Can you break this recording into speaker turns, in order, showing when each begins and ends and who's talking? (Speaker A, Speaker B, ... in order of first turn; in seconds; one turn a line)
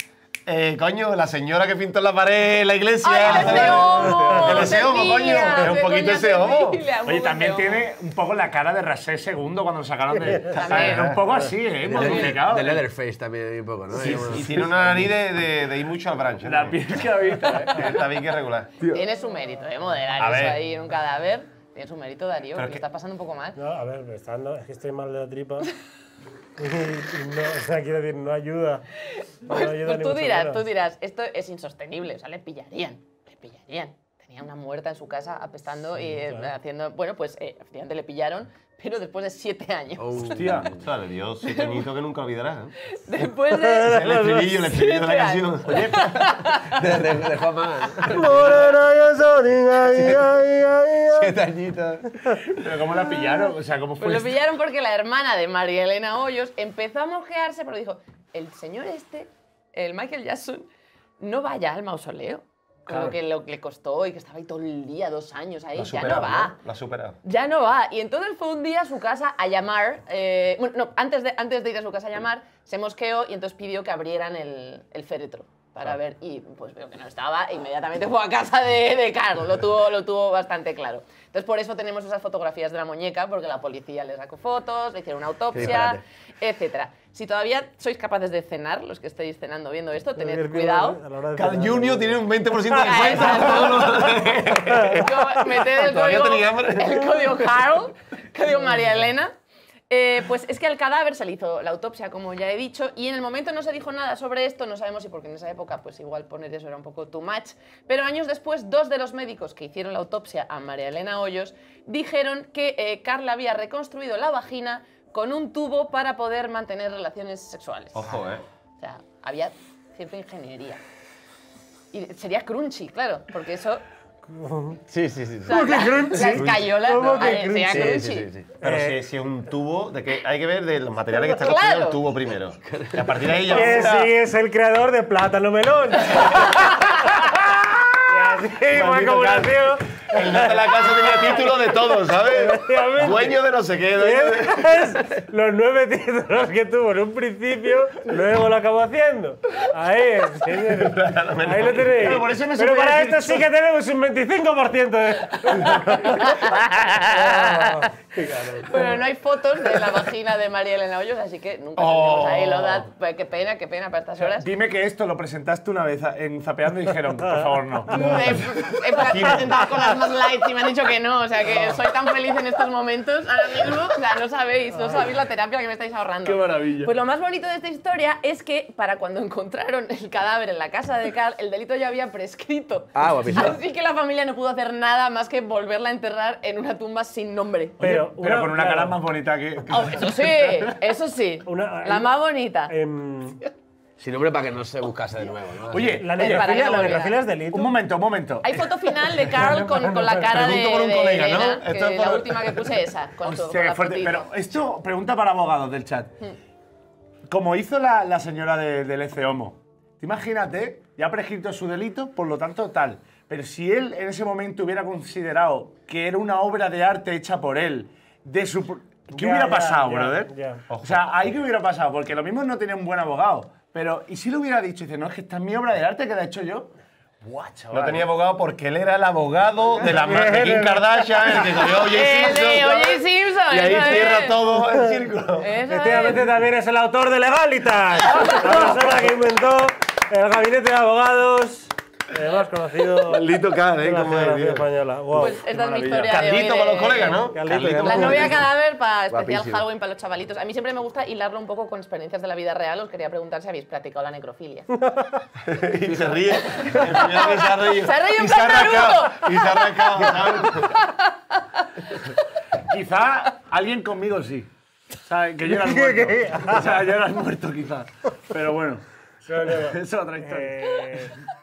Speaker A: 0.5-6.8
Speaker B: 3.0-7.9
Speaker C: 3.3-4.2
Speaker D: 3.3-3.8
Speaker D: 5.6-5.8
Speaker D: 7.1-12.8
Speaker B: 10.5-11.2
Speaker A: 10.6-11.2
Speaker C: 11.9-14.7
Speaker B: 12.0-12.4
Speaker A: 13.9-16.8
Speaker D: 14.0-15.0
Speaker D: 16.4-17.9
Speaker A: 17.7-18.7
Speaker B: 18.8-23.6
Speaker A: 20.2-20.6
Speaker A: 22.6-22.8
Speaker E: 23.6-25.7
Speaker E: 26.6-28.8
Speaker B: 29.1-40.2
Speaker E: 29.5-30.6
Speaker E: 36.1-36.5
Speaker C: 40.0-40.9
Speaker D: 40.2-40.7
Speaker A: 40.8-42.7
Speaker B: 41.5-41.8
Speaker B: 42.9-46.9
Speaker E: 43.5-44.5
Speaker A: 43.9-45.8
Speaker D: 45.7-46.2
Speaker C: 46.7-48.3
Speaker E: 48.1-51.4
Speaker C: 49.9-50.3
Speaker C: 51.1-52.4
Speaker D: 52.4-54.4
Speaker B: 54.0-60.7
Speaker B: 61.2-66.6
Speaker D: 62.9-63.1
Speaker A: 65.8-67.2
Speaker B: 67.2-91.0
Speaker C: 85.5-86.0
Speaker E: 90.2-92.2
Speaker A: 91.3-97.6
Speaker B: 92.7-99.3
Speaker B: 99.9-118.1
Speaker A: 118.0-118.4
Speaker B: 118.8-120.8
Speaker B: 121.9-123.8
Speaker E: 124.3-124.8
Speaker C: 124.9-125.6
Speaker B: 125.5-128.3
Speaker E: 125.5-128.0
Speaker C: 127.7-128.6
Speaker E: 128.6-129.0
Speaker A: 128.6-134.1
Speaker B: 131.4-132.0
Speaker C: 132.7-133.3
Speaker E: 133.4-137.3
Speaker B: 136.4-136.9
Speaker E: 138.0-141.5
Speaker A: 138.7-139.5
Speaker A: 140.1-144.7
Speaker E: 142.2-143.4
Speaker E: 143.9-159.0
Speaker A: 150.7-152.4
Speaker D: 151.8-153.5
Speaker B: 156.0-164.5
Speaker A: 161.8-162.9
Speaker D: 164.2-168.2
Speaker B: 167.9-187.8
Speaker D: 168.9-169.4
Speaker D: 176.2-176.9
Speaker C: 182.9-183.6
Speaker E: 187.8-189.0
Speaker D: 187.8-190.7
Speaker B: 189.7-192.7
Speaker E: 191.4-193.4
Speaker C: 194.0-196.2
Speaker D: 195.7-196.9
Speaker E: 196.0-197.7
Speaker B: 196.2-197.2
Speaker D: 197.5-199.2
Speaker B: 198.4-204.3
Speaker E: 199.3-200.4
Speaker A: 200.3-202.8
Speaker D: 203.2-206.1
Speaker D: 207.3-228.1
Speaker E: 219.2-220.6
Speaker A: 220.7-221.0
Speaker A: 227.7-235.5
Speaker E: 229.9-231.5
Speaker B: 231.8-234.4
Speaker E: 234.6-235.0
Speaker B: 235.4-236.3
Speaker E: 235.7-243.3
Speaker A: 243.0-244.7
Speaker E: 243.8-246.1
Speaker B: 245.2-254.8
Speaker A: 245.9-248.4
Speaker E: 247.3-248.3
Speaker C: 249.1-249.6
Speaker A: 255.4-260.8
Speaker C: 255.9-256.6
Speaker B: 256.6-262.1
Speaker D: 262.6-264.5
Speaker D: 265.0-271.3
Speaker E: 265.5-266.8
Speaker E: 269.3-271.2